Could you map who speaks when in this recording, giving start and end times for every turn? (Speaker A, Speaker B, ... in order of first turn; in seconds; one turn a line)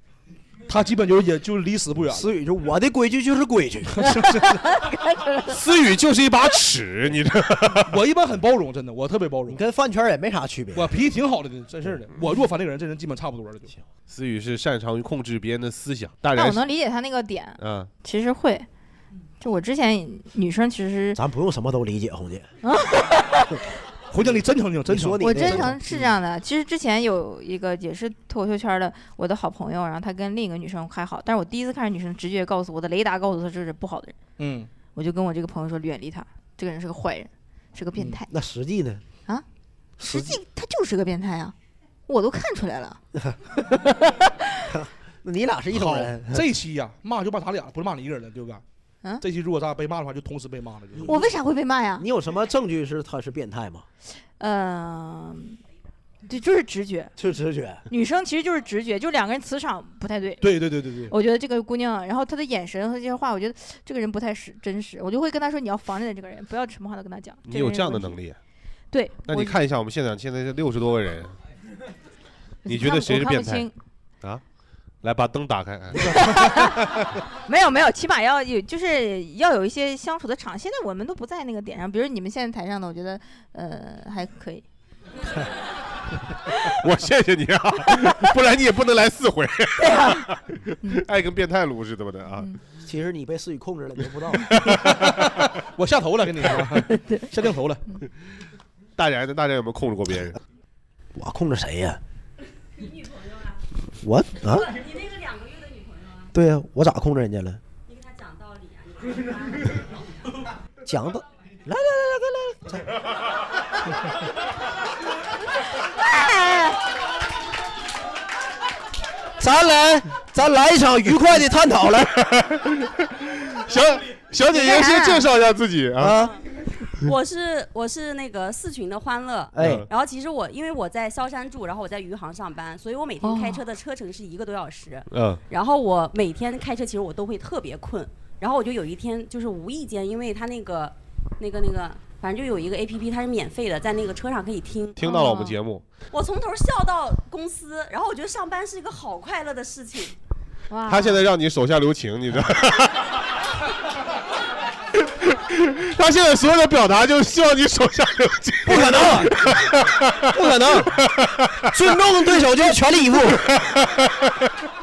Speaker A: 0.7-2.3
Speaker B: 2.1-4.4
Speaker A: 4.0-4.6
Speaker C: 4.7-5.5
Speaker D: 5.5-8.0
Speaker A: 7.8-9.6
Speaker B: 9.5-10.9
Speaker A: 10.7-13.7
Speaker D: 14.1-16.6
Speaker C: 16.3-18.7
Speaker D: 17.6-17.9
Speaker C: 19.4-21.2
Speaker B: 21.1-22.4
Speaker C: 22.6-23.6
Speaker A: 24.1-25.7
Speaker B: 24.9-26.1
Speaker C: 25.2-34.1
Speaker A: 34.4-34.7
Speaker C: 34.9-38.3
Speaker B: 38.3-39.0
Speaker B: 40.0-40.3
Speaker C: 40.0-41.5
Speaker C: 42.1-43.0
Speaker C: 43.7-44.4
Speaker B: 44.7-46.4
Speaker A: 45.7-48.6
Speaker A: 49.2-51.2
Speaker B: 50.9-51.3
Speaker C: 51.0-52.0
Speaker B: 52.0-53.9
Speaker C: 54.4-55.6
Speaker C: 56.2-57.1
Speaker B: 57.2-57.8
Speaker C: 57.9-60.5
Speaker A: 60.4-61.1
Speaker C: 61.1-68.2
Speaker D: 67.5-68.4
Speaker C: 68.9-69.6
Speaker D: 69.3-71.3
Speaker C: 72.6-73.7
Speaker D: 72.7-73.7
Speaker D: 75.0-76.8
Speaker C: 76.0-76.8
Speaker C: 77.5-84.6
Speaker D: 86.6-92.5
Speaker C: 89.8-91.0
Speaker B: 92.8-94.7
Speaker A: 94.7-97.8
Speaker C: 96.9-97.2
Speaker D: 99.0-100.4
Speaker B: 101.1-102.0
Speaker E: 102.8-103.6
Speaker B: 104.0-104.7
Speaker E: 104.5-106.3
Speaker B: 106.3-107.6
Speaker E: 107.8-109.8
Speaker B: 110.8-112.8
Speaker C: 115.9-116.8
Speaker B: 119.4-122.1
Speaker D: 122.1-126.2
Speaker C: 124.5-125.3
Speaker B: 126.0-126.4
Speaker E: 127.0-145.0
Speaker B: 129.5-129.9
Speaker D: 129.6-129.9
Speaker C: 133.2-133.6
Speaker D: 135.1-135.4
Speaker D: 144.9-145.8
Speaker C: 145.0-145.6
Speaker E: 146.1-150.1
Speaker C: 150.7-151.2
Speaker D: 150.9-153.1
Speaker D: 155.0-161.6
Speaker B: 158.6-159.4
Speaker B: 160.2-160.9
Speaker B: 161.7-163.4
Speaker D: 163.5-164.1